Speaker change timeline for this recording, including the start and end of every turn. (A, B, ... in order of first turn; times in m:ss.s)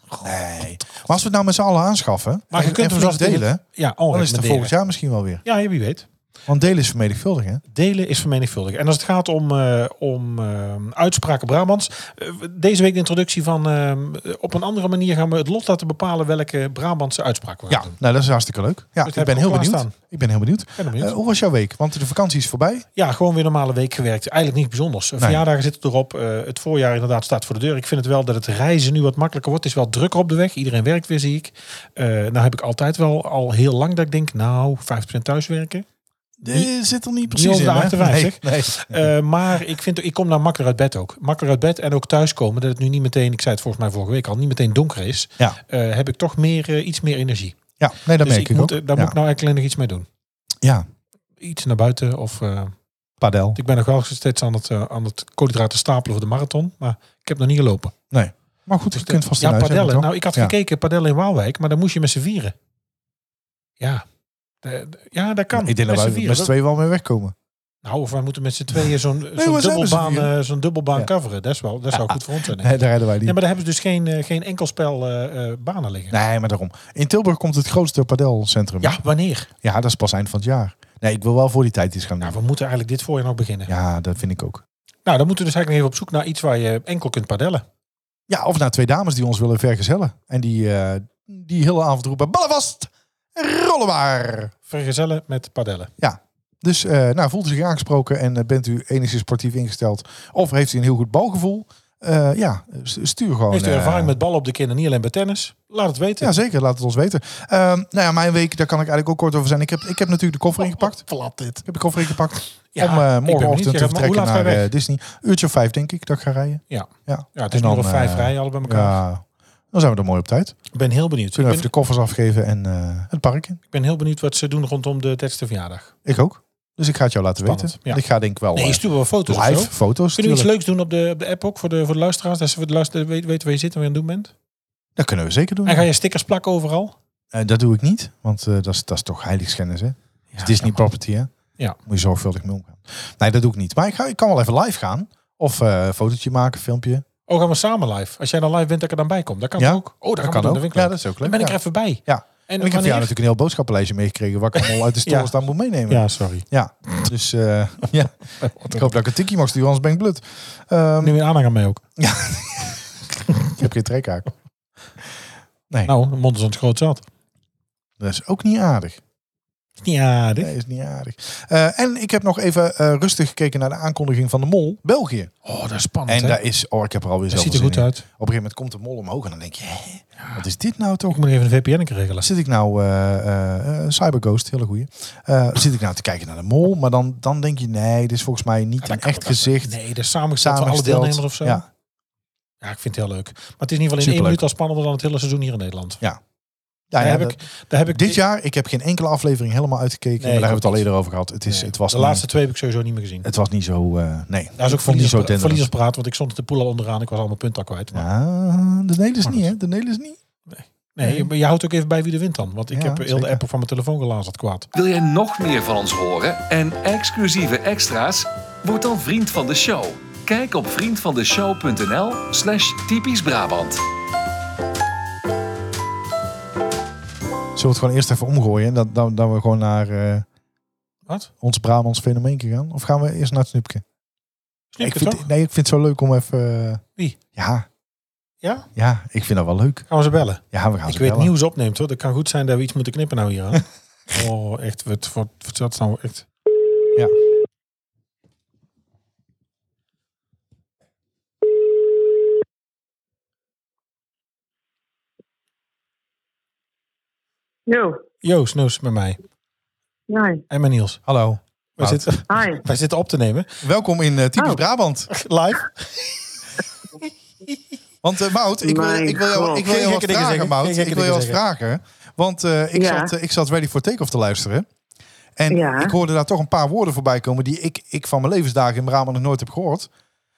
0:00.2-0:05.4 A
0:02.5-0:04.8 B
0:05.4-0:06.1 B
0:06.5-0:07.6 A
0:07.7-0:18.0 B
0:17.7-0:22.9 A
0:19.0-0:20.0 B
0:20.8-0:21.1 B
0:23.0-0:35.8 B
0:36.4-0:39.1 A
0:37.2-0:47.6 B
0:47.8-0:49.2 A
0:48.2-0:50.1 B
0:51.4-0:52.8 B
0:53.2-0:53.6 A
0:53.6-0:57.9 B
0:58.1-1:00.6 A
0:59.0-1:02.6 B
1:03.8-1:04.0 B
1:04.6-1:06.5 B
1:05.5-1:07.4 A
1:07.8-1:16.2 B
1:09.4-1:10.3 A
1:11.9-1:13.4 A
1:16.1-1:19.0 A
1:18.8-1:19.5 B
1:19.6-1:22.4 A
1:22.2-1:23.7 B
1:23.7-1:24.6 A
1:25.1-1:27.6 B
1:28.3-1:34.5 A
1:34.7-1:35.9 B
1:36.0-1:44.1 A
1:43.5-1:46.4 B
1:46.2-1:51.1 A
1:50.6-1:51.6 B
1:51.6-2:00.6 A
1:52.8-1:54.7 B
1:56.7-1:59.0 B
2:00.7-2:01.7 B
2:01.4-2:03.6 A
2:03.7-2:05.9 B
2:06.0-2:10.5 A
2:07.4-2:08.0 B
2:08.5-2:14.3 B
2:15.0-2:15.9 A
2:15.7-2:17.0 B
2:17.3-2:27.0 A
2:20.3-2:20.8 B
2:27.3-2:33.1 B
2:29.6-2:41.2 A
2:34.6-2:35.3 B
2:35.9-2:37.1 B
2:38.4-2:38.9 B
2:41.0-2:41.8 B
2:42.0-2:42.9 A
2:43.5-2:44.3 A
2:45.9-2:47.1 B
2:48.0-2:49.0 A
2:49.8-2:50.6 B
2:50.4-2:55.3 A
2:55.4-2:56.4 B
2:56.1-3:01.2 A
2:57.3-2:58.0 B
3:01.1-3:02.3 B
3:02.2-3:09.8 A
3:08.8-3:11.6 B
3:10.4-3:11.7 A
3:12.6-3:16.0 B
3:14.0-3:14.4 A
3:16.9-3:17.4 A
3:17.0-3:18.2 B
3:17.9-3:22.2 A
3:20.2-3:20.8 B
3:21.5-3:23.3 B
3:23.2-3:25.7 A
3:24.6-3:28.0 B
3:27.9-3:30.2 A
3:29.2-3:29.5 B
3:30.5-3:34.7 B
3:31.0-3:31.3 A
3:32.7-3:33.4 A
3:34.7-3:43.8 C
3:47.6-3:50.2 A
3:51.4-3:53.8 A
3:54.7-3:55.3 B
3:54.8-3:56.8 A
3:57.4-3:57.7 A
3:58.4-3:58.7 B
3:58.8-3:59.9 A
3:59.9-4:06.3 B
4:00.5-4:01.3 A
4:17.7-4:18.0 D
4:18.2-4:19.2 B
4:20.1-4:20.4 D
4:20.5-4:21.0 B
4:21.1-4:22.1 A
4:21.8-4:23.5 B
4:22.3-4:22.6 D
4:23.6-4:25.1 A
4:24.4-4:24.6 D
4:25.1-4:26.2 B
4:28.0-4:34.7 A
4:28.6-4:29.7 D
4:29.6-4:31.4 B
4:32.8-4:33.1 D
4:35.4-4:39.9 A
4:35.5-4:35.9 D